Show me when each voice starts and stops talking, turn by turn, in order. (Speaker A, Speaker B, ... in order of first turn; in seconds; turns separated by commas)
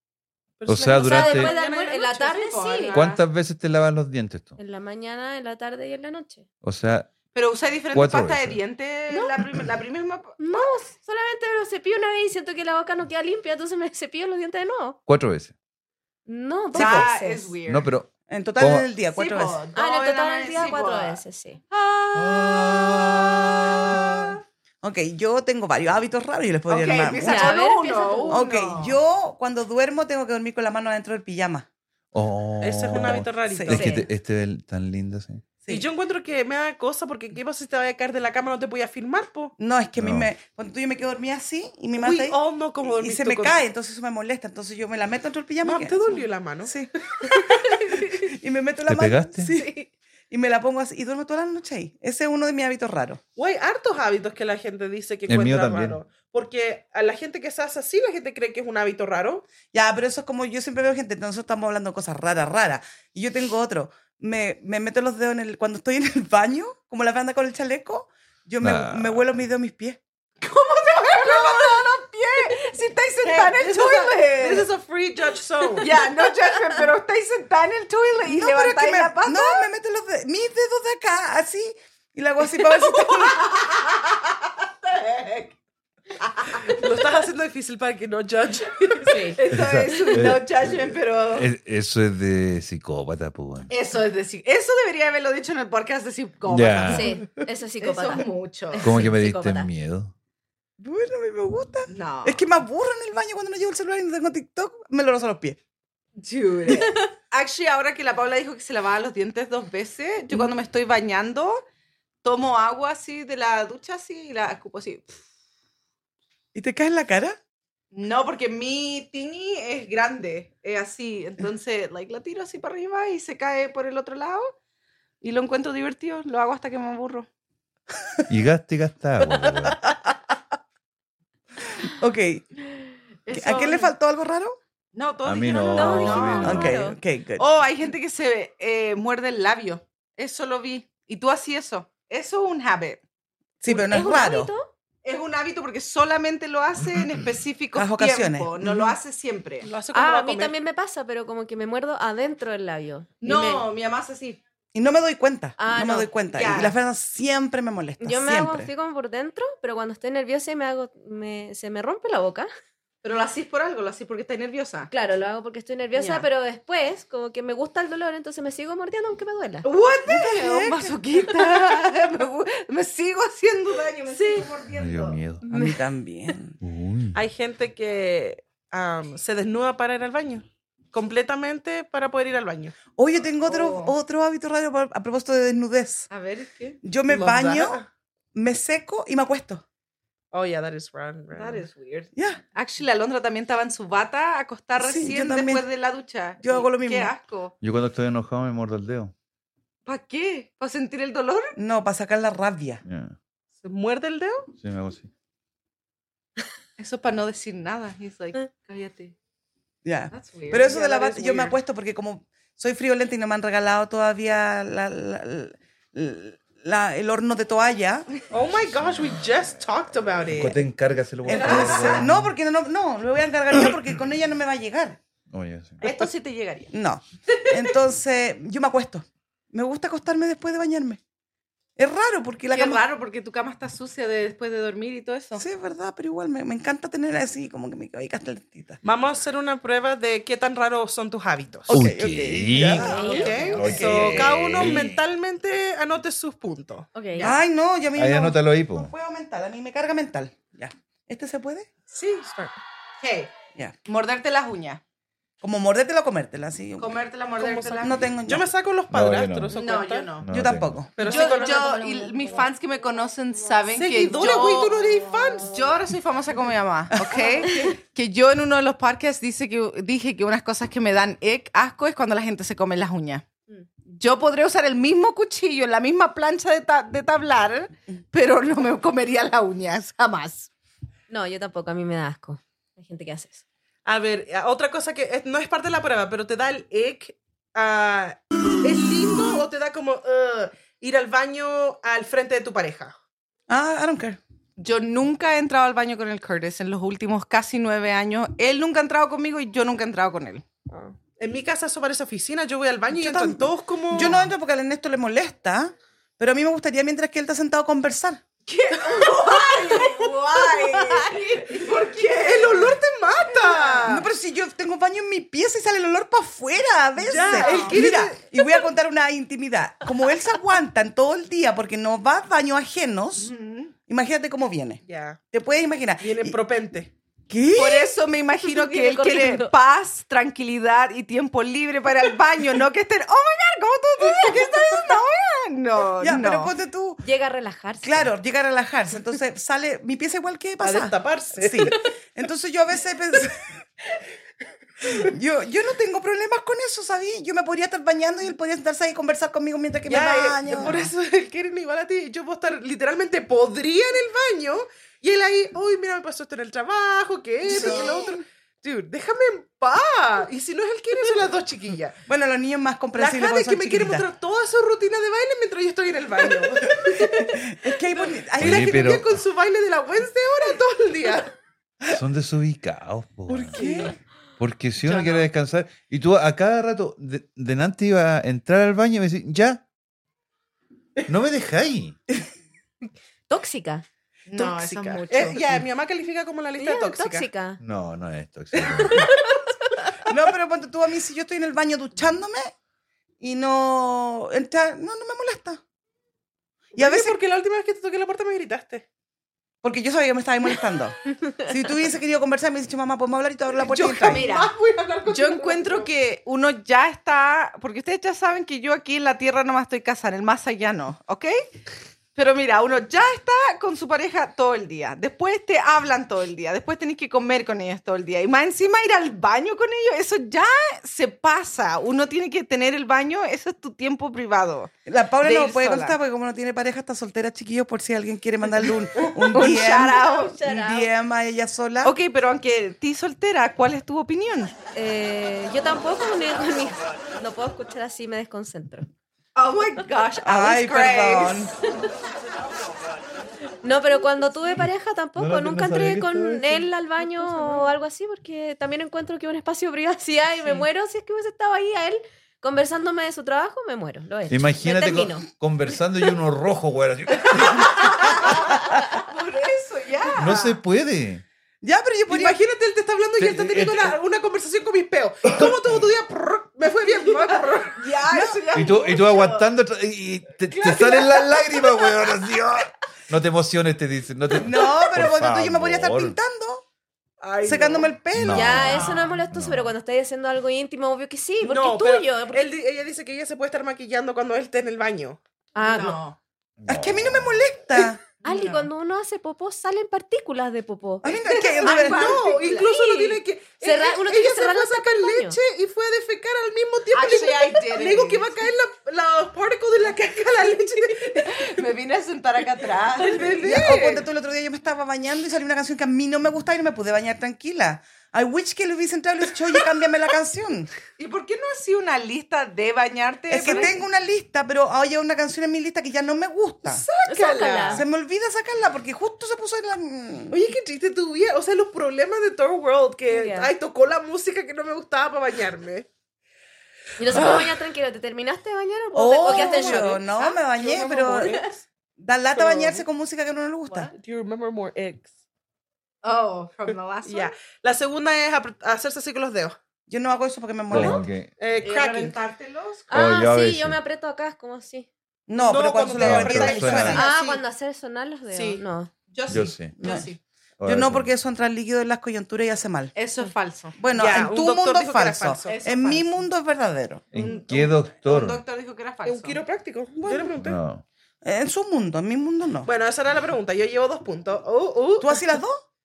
Speaker A: 0.6-3.0, Speaker B: 0.7-1.5, Speaker C: 1.0-3.0, Speaker D: 2.2-3.2, Speaker B: 2.9-4.6, Speaker C: 4.6-6.5, Speaker B: 6.6-7.1, Speaker D: 7.3-10.7, Speaker B: 7.9-8.6, Speaker C: 10.4-15.0, Speaker B: 15.1-15.5, Speaker C: 16.3-17.5, Speaker E: 16.7-17.1, Speaker D: 16.7-17.9, Speaker B: 17.7-18.9, Speaker E: 18.3-19.6, Speaker D: 19.1-24.3, Speaker C: 19.8-21.6, Speaker B: 22.1-24.3, Speaker E: 24.8-27.6, Speaker D: 26.7-29.0, Speaker C: 27.2-28.4, Speaker E: 28.3-31.6, Speaker B: 32.1-35.5, Speaker A: 32.6-33.9, Speaker E: 32.9-33.8, Speaker C: 33.7-34.1, Speaker A: 35.7-39.5, Speaker E: 39.6-46.9, Speaker B: 40.0-40.3, Speaker A: 42.0-43.6, Speaker A: 45.6-47.6, Speaker E: 48.0-49.7, Speaker B: 48.9-49.5, Speaker E: 50.3-53.2, Speaker A: 53.4-59.4, Speaker B: 55.3-56.0, Speaker E: 59.7-70.0, Speaker B: 68.6-69.3, Speaker D: 70.4-74.7, Speaker A: 71.3-71.8, Speaker A: 73.2-75.9, Speaker D: 75.8-79.7, Speaker E: 78.2-83.5, Speaker D: 82.5-85.5, Speaker D: 86.2-86.8, Speaker A: 86.7-89.3, Speaker D: 88.9-91.5, Speaker C: 89.0-89.4, Speaker B: 89.5-93.7, Speaker D: 93.7-97.2, Speaker B: 96.5-97.1, Speaker C: 96.8-99.7, Speaker D: 97.8-99.1, Speaker B: 98.8-100.1, Speaker E: 100.8-105.6, Speaker D: 101.9-102.4, Speaker D: 106.2-111.6, Speaker D: 112.2-115.2, Speaker E: 116.5-117.4, Speaker D: 117.9-124.5, Speaker D: 125.2-127.3, Speaker B: 128.3-129.8, Speaker E: 131.8-132.5, Speaker D: 133.2-133.9, Speaker E: 133.3-134.6, Speaker D: 134.9-136.7, Speaker B: 135.2-136.7, Speaker C: 135.7-137.0, Speaker E: 136.4-137.4, Speaker D: 137.4-143.0, Speaker E: 143.6-144.5, Speaker C: 143.7-144.7, Speaker D: 145.0-149.7, Speaker E: 147.7-148.9, Speaker A: 149.6-150.5, Speaker C: 149.9-153.6, Speaker D: 153.2-154.4, Speaker E: 154.7-158.7, Speaker C: 155.6-156.1, Speaker D: 156.3-156.8, Speaker C: 158.0-162.5, Speaker D: 163.0-164.9, Speaker C: 164.9-169.7, Speaker D: 165.9-166.2, Speaker D: 169.6-175.2, Speaker E: 170.1-171.0, Speaker C: 174.1-174.4, Speaker B: 174.8-175.4, Speaker C: 175.4-175.8, Speaker E: 175.5-176.6, Speaker B: 176.6-177.2, Speaker A: 177.1-182.8, Speaker E: 182.9-186.1, Speaker D: 183.4-183.9, Speaker D: 186.1-186.8, Speaker E: 186.8-187.8, Speaker A: 187.1-187.8, Speaker E: 188.3-189.6, Speaker A: 190.3-191.6, Speaker D: 191.3-197.5, Speaker E: 192.1-192.4, Speaker E: 194.8-195.7, Speaker E: 196.4-197.1, Speaker B: 197.6-199.1, Speaker D: 199.8-201.6, Speaker E: 201.6-202.8, Speaker B: 202.8-203.2, Speaker A: 203.6-204.5, Speaker B: 204.6-205.1, Speaker D: 206.8-209.1, Speaker E: 209.8-218.1, Speaker D: 210.1-211.5, Speaker A: 210.9-211.4, Speaker A: 218.3-220.6, Speaker B: 220.2-222.3, Speaker E: 221.2-225.0, Speaker D: 221.3-222.0, Speaker B: 225.3-225.8, Speaker D: 225.8-226.7, Speaker E: 226.7-231.0, Speaker D: 227.3-227.7, Speaker E: 231.8-232.8, Speaker D: 232.5-235.4, Speaker E: 235.3-238.8, Speaker A: 238.8-241.9, Speaker E: 241.7-243.9, Speaker B: 241.7-243.0, Speaker C: 242.7-243.5, Speaker D: 242.8-244.4, Speaker A: 243.0-246.9, Speaker B: 243.5-245.0, Speaker C: 246.9-247.2, Speaker D: 247.0-247.4, Speaker E: 247.2-251.7, Speaker B: 247.9-248.9, Speaker A: 251.9-252.6, Speaker D: 253.0-253.3, Speaker D: 253.8-254.8, Speaker E: 255.4-256.9, Speaker D: 256.8-258.0, Speaker A: 257.4-260.2, Speaker E: 257.8-258.5, Speaker B: 258.9-259.6, Speaker D: 259.5-260.2, Speaker B: 260.2-260.8, Speaker E: 260.3-260.9, Speaker A: 260.9-261.6, Speaker C: 261.0-262.5, Speaker D: 261.0-264.8, Speaker A: 263.7-265.6, Speaker D: 265.3-273.2, Speaker E: 266.9-267.3, Speaker D: 273.9-280.5, Speaker C: 281.1-283.4, Speaker A: 283.8-292.9, Speaker E: 293.5-294.2, Speaker D: 294.6-300.4, Speaker A: 300.7-304.3, Speaker E: 302.9-308.2, Speaker D: 308.4-312.8, Speaker A: 312.1-314.1, Speaker D: 313.4-313.8, Speaker E: 313.8-323.3, Speaker A: 317.0-318.3, Speaker D: 317.2-317.8, Speaker D: 323.2-323.7, Speaker E: 323.9-326.4, Speaker A: 324.8-325.2, Speaker A: 326.0-326.9, Speaker E: 327.3-327.9, Speaker D: 327.5-336.5, Speaker C: 328.4-329.5, Speaker A: 334.2-334.5, Speaker E: 336.0-337.0, Speaker C: 337.0-338.1, Speaker E: 337.8-343.6, Speaker A: 340.6-341.8, Speaker E: 344.9-350.9, Speaker A: 349.8-361.9, Speaker E: 357.4-358.2, Speaker E: 362.1-364.1, Speaker A: 362.9-371.3, Speaker E: 366.8-369.0, Speaker B: 368.4-369.2, Speaker B: 371.8-373.6, Speaker A: 373.3-373.9, Speaker E: 373.5-373.9, Speaker B: 374.4-379.6, Speaker D: 374.8-375.3, Speaker B: 381.1-382.0, Speaker C: 383.3-383.8, Speaker D: 384.3-385.4, Speaker A: 385.1-387.3, Speaker C: 386.6-387.6, Speaker B: 387.6-389.1, Speaker A: 388.7-389.3, Speaker C: 388.9-389.4, Speaker E: 390.1-392.5, Speaker E: 393.2-395.6, Speaker A: 396.7-398.8, Speaker E: 396.8-397.2, Speaker E: 399.6-404.2, Speaker A: 403.6-405.9, Speaker D: 403.7-404.5, Speaker D: 405.1-411.4, Speaker D: 412.1-426.0, Speaker E: 424.9-431.9, Speaker D: 429.3-430.4, Speaker C: 429.8-430.9, Speaker D: 431.8-434.5, Speaker C: 434.7-438.9, Speaker D: 439.4-441.5, Speaker E: 440.2-441.5, Speaker C: 443.6-455.2, Speaker B: 445.2-446.7, Speaker D: 447.3-447.6, Speaker B: 454.3-458.3, Speaker D: 457.6-460.6, Speaker B: 460.2-461.2, Speaker E: 461.6-462.4, Speaker A: 462.1-467.9, Speaker B: 463.2-464.0, Speaker B: 465.3-465.9, Speaker D: 466.9-469.5, Speaker E: 468.1-468.5, Speaker B: 468.5-476.1, Speaker A: 470.5-471.5, Speaker E: 474.4-476.6, Speaker A: 477.2-478.0, Speaker E: 477.4-478.8, Speaker B: 478.1-479.7, Speaker C: 478.2-482.5, Speaker D: 478.6-479.2, Speaker A: 481.4-485.2, Speaker C: 485.5-486.0, Speaker D: 485.6-486.2, Speaker B: 486.6-487.4, Speaker E: 486.7-488.0, Speaker C: 488.2-491.1, Speaker D: 488.2-488.7, Speaker E: 491.0-492.2, Speaker D: 491.1-492.7, Speaker A: 491.6-501.5, Speaker C: 492.6-495.4, Speaker D: 496.9-498.4, Speaker D: 501.1-503.4, Speaker A: 503.0-504.1, Speaker E: 503.4-510.7, Speaker D: 511.0-513.7, Speaker E: 513.3-516.8, Speaker A: 516.8-517.8, Speaker C: 517.0-517.8, Speaker D: 517.1-517.6, Speaker E: 517.7-520.4, Speaker A: 520.3-525.9, Speaker C: 523.1-523.5, Speaker C: 527.0-530.0, Speaker A: 527.1-527.5, Speaker E: 528.9-531.4, Speaker D: 529.3-530.4, Speaker A: 529.3-529.8, Speaker A: 530.5-531.6, Speaker E: 532.0-533.9, Speaker A: 532.3-532.8, Speaker A: 533.9-535.1, Speaker D: 536.0-537.3, Speaker A: 537.0-539.6, Speaker E: 539.9-541.0, Speaker B: 540.7-541.3, Speaker A: 540.9-542.1, Speaker D: 541.6-542.9, Speaker C: 542.9-544.9, Speaker B: 542.9-543.8, Speaker E: 545.3-547.0, Speaker A: 545.3-547.4, Speaker B: 545.9-547.0, Speaker C: 546.9-548.9, Speaker A: 548.3-548.6, Speaker D: 549.1-550.2, Speaker B: 549.3-549.8, Speaker E: 549.8-550.0, Speaker B: 550.6-551.1, Speaker E: 550.6-552.9, Speaker D: 552.9-553.8, Speaker E: 553.8-557.3, Speaker A: 553.9-555.6, Speaker D: 555.4-556.2, Speaker B: 557.1-558.4, Speaker D: 557.5-559.4, Speaker A: 559.0-560.6, Speaker E: 560.0-560.4, Speaker B: 560.4-560.8, Speaker E: 561.2-562.7, Speaker A: 562.6-565.2, Speaker E: 565.0-565.6